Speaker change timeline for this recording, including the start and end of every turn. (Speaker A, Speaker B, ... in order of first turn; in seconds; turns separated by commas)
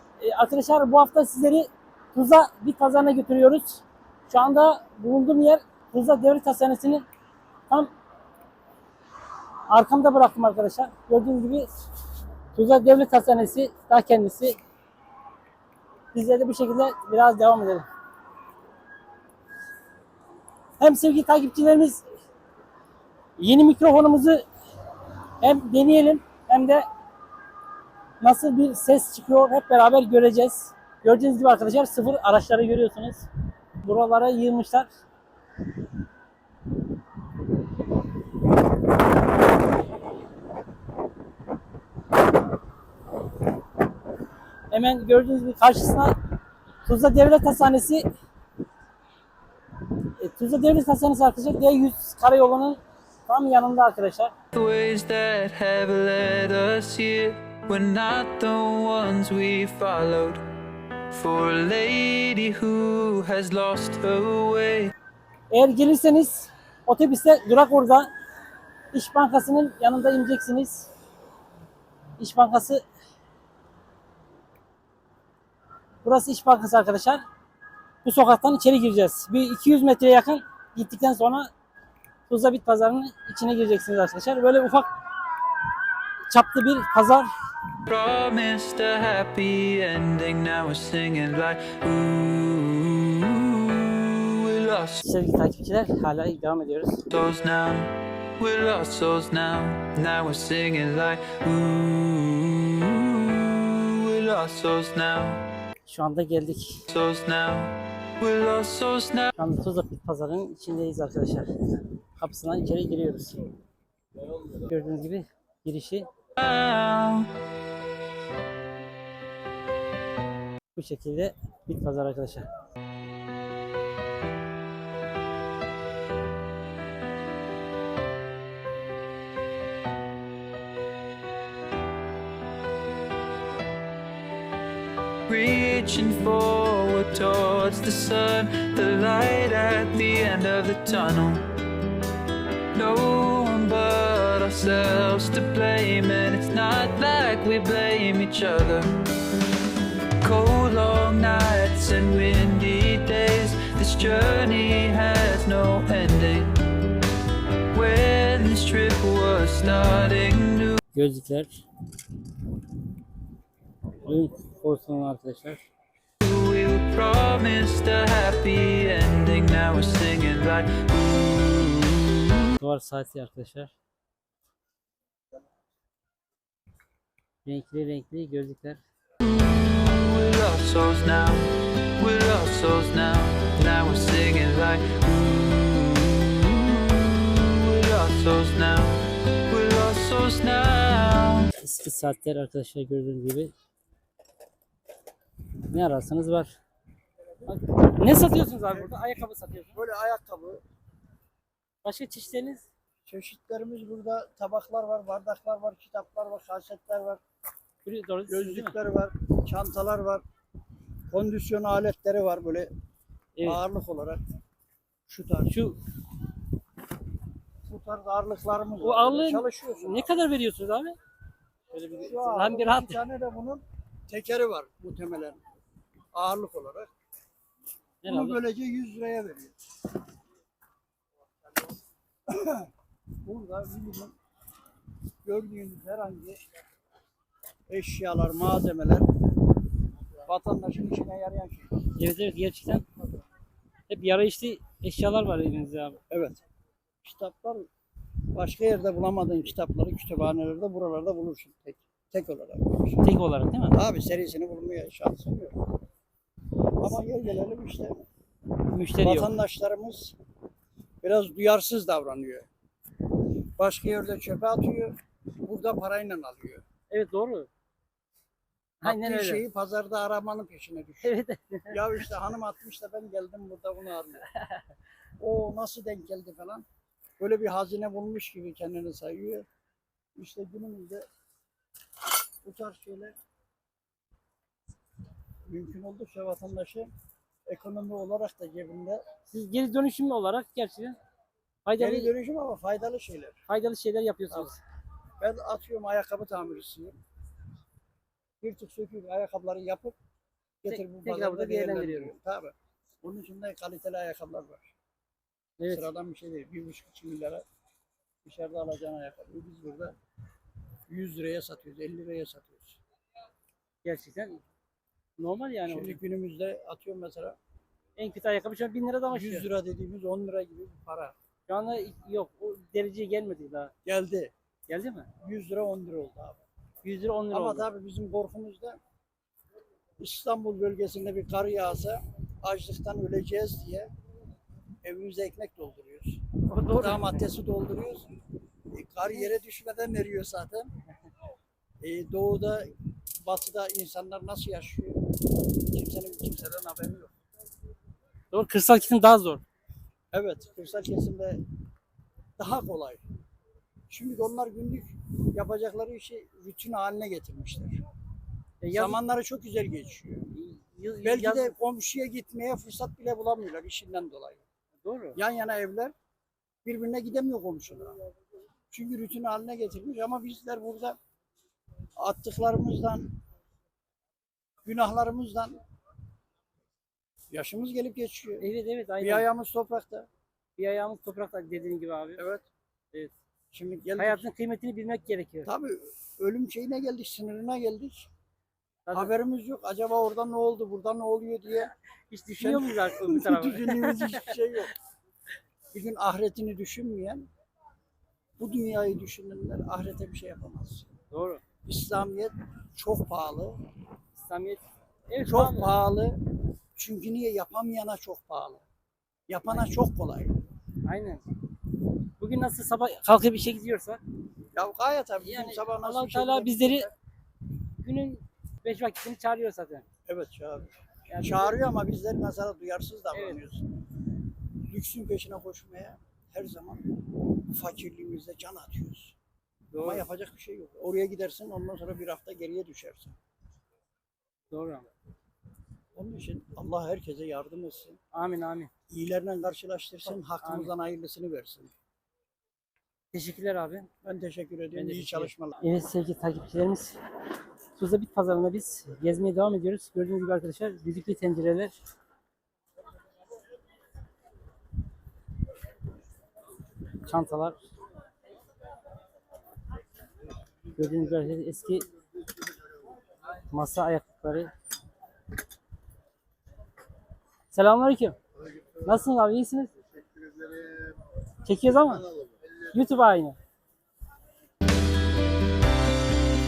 Speaker A: 0.2-7.1, Speaker A: 9.7-11.7, Speaker A: 12.5-14.6, Speaker A: 16.1-17.9, Speaker A: 20.8-22.0, Speaker A: 23.4-24.4, Speaker A: 25.4-26.9, Speaker A: 28.2-33.3, Speaker A: 33.8-34.9, Speaker A: 44.7-46.2, Speaker A: 46.8-48.1, Speaker A: 50.2-54.3, Speaker B: 54.5-60.4, Speaker B: 61.1-64.9, Speaker A: 65.5-68.1, Speaker A: 68.9-70.9, Speaker A: 72.2-72.8, Speaker A: 76.0-77.2, Speaker A: 78.0-81.5, Speaker A: 82.3-84.9, Speaker A: 86.3-87.3, Speaker B: 87.9-95.1, Speaker A: 95.0-97.0, Speaker B: 97.1-105.4, Speaker A: 105.9-106.8, Speaker B: 106.9-109.3, Speaker A: 109.4-111.5, Speaker A: 112.2-113.4, Speaker A: 114.5-116.1, Speaker B: 116.4-117.3, Speaker A: 120.8-122.5, Speaker B: 135.3-141.4, Speaker B: 142.7-148.9, Speaker B: 150.2-156.6, Speaker B: 157.7-160.8, Speaker A: 160.9-161.6, Speaker A: 164.1-165.7, Speaker B: 166.2-171.9, Speaker A: 172.6-173.7, Speaker A: 177.4-178.8, Speaker B: 179.2-191.5, Speaker A: 191.6-193.5, Speaker A: 195.7-196.6, Speaker A: 197.5-199.8, Speaker C: 198.7-199.0, Speaker C: 199.7-200.6, Speaker A: 201.8-202.7, Speaker C: 203.1-207.2, Speaker A: 207.8-208.8, Speaker C: 208.3-210.2, Speaker C: 211.1-212.7, Speaker A: 213.3-213.6, Speaker C: 213.4-214.2, Speaker C: 215.1-215.5, Speaker A: 215.5-215.8, Speaker C: 217.7-220.1, Speaker A: 218.8-221.0, Speaker C: 221.7-225.4, Speaker A: 221.8-223.0, Speaker C: 226.1-226.9, Speaker A: 228.0-228.4, Speaker C: 228.1-229.6, Speaker C: 232.3-232.7, Speaker C: 233.2-234.2, Speaker C: 235.2-236.4, Speaker C: 237.7-239.1, Speaker C: 240.2-241.8, Speaker A: 242.0-242.8, Speaker A: 243.9-246.0, Speaker C: 246.1-246.4, Speaker C: 247.0-247.7, Speaker C: 248.3-253.0, Speaker A: 253.0-253.8, Speaker C: 253.7-255.7, Speaker C: 256.8-258.1, Speaker A: 258.7-259.3, Speaker C: 259.0-260.2, Speaker C: 261.0-262.5, Speaker C: 263.6-266.6, Speaker A: 266.9-267.5, Speaker A: 268.8-269.4, Speaker C: 268.8-271.1, Speaker A: 271.0-271.7, Speaker C: 271.7-274.3, Speaker C: 275.2-276.7, Speaker C: 277.2-279.5, Speaker C: 280.2-281.1, Speaker C: 282.4-283.1, Speaker C: 285.4-286.9, Speaker C: 287.5-289.0, Speaker A: 289.3-291.0, Speaker A: 291.6-292.1, Speaker C: 291.8-293.4, Speaker A: 293.5-294.6, Speaker C: 294.3-294.6, Speaker C: 295.2-297.0, Speaker C: 298.4-299.9, Speaker C: 300.6-304.7, Speaker A: 300.7-302.1, Speaker A: 305.6-305.9, Speaker C: 305.7-307.4, Speaker C: 308.2-309.9, Speaker C: 310.9-312.8, Speaker A: 313.8-314.4, Speaker A: 315.2-316.0, Speaker C: 315.7-317.4, Speaker A: 318.0-319.5, Speaker C: 319.1-321.2, Speaker A: 321.5-323.7, Speaker C: 323.9-324.3, Speaker A: 324.7-325.1, Speaker C: 325.2-326.4, Speaker A: 326.8-327.7, Speaker C: 327.3-328.8, Speaker C: 330.0-333.9, Speaker C: 334.8-338.1, Speaker A: 336.5-337.3, Speaker C: 338.7-340.7, Speaker C: 341.8-347.1, Speaker A: 348.3-349.4, Speaker C: 350.1-351.4, Speaker C: 352.4-353.0, Speaker C: 353.9-357.8, Speaker A: 358.6-359.0, Speaker C: 358.7-360.3, Speaker A: 360.3-361.6, Speaker C: 361.0-364.4, Speaker A: 364.8-365.2, Speaker C: 365.1-365.9, Speaker C: 366.6-367.9, Speaker C: 368.7-371.0, Speaker C: 372.0-373.2, Speaker C: 374.6-375.6, Speaker C: 377.3-378.5, Speaker A: 378.4-379.3, Speaker C: 379.0-380.1, Speaker A: 380.6-382.2, Speaker C: 382.2-382.4, Speaker C: 383.5-384.2, Speaker A: 384.0-385.5, Speaker C: 385.4-388.1, Speaker A: 388.9-389.1, Speaker C: 388.9-391.7, Speaker A: 392.1-394.3, Speaker C: 392.4-394.7, Speaker C: 395.7-397.3, Speaker C: 398.4-400.9, Speaker A: 401.1-401.4, Speaker C: 401.6-403.6, Speaker A: 404.2-405.7, Speaker C: 405.2-408.6, Speaker C: 409.3-410.4, Speaker A: 410.9-411.2, Speaker A: 412.2-414.0, Speaker C: 414.5-416.9, Speaker A: 415.2-416.9, Speaker A: 417.8-419.9, Speaker C: 420.1-423.6, Speaker A: 421.1-421.6, Speaker A: 423.1-423.4, Speaker C: 424.6-429.2, Speaker A: 429.7-430.1, Speaker C: 429.8-433.2, Speaker A: 434.5-434.9, Speaker C: 435.9-438.0, Speaker A: 438.1-438.7, Speaker C: 438.9-441.7, Speaker A: 440.1-440.7, Speaker A: 443.1-443.9, Speaker C: 444.0-445.6, Speaker A: 444.8-447.0, Speaker A: 447.8-451.8, Speaker A: 457.1-457.6, Speaker A: 460.8-461.9, Speaker A: 463.5-464.5, Speaker A: 467.5-468.2, Speaker A: 468.8-469.7, Speaker A: 471.4-472.1, Speaker A: 472.7-473.4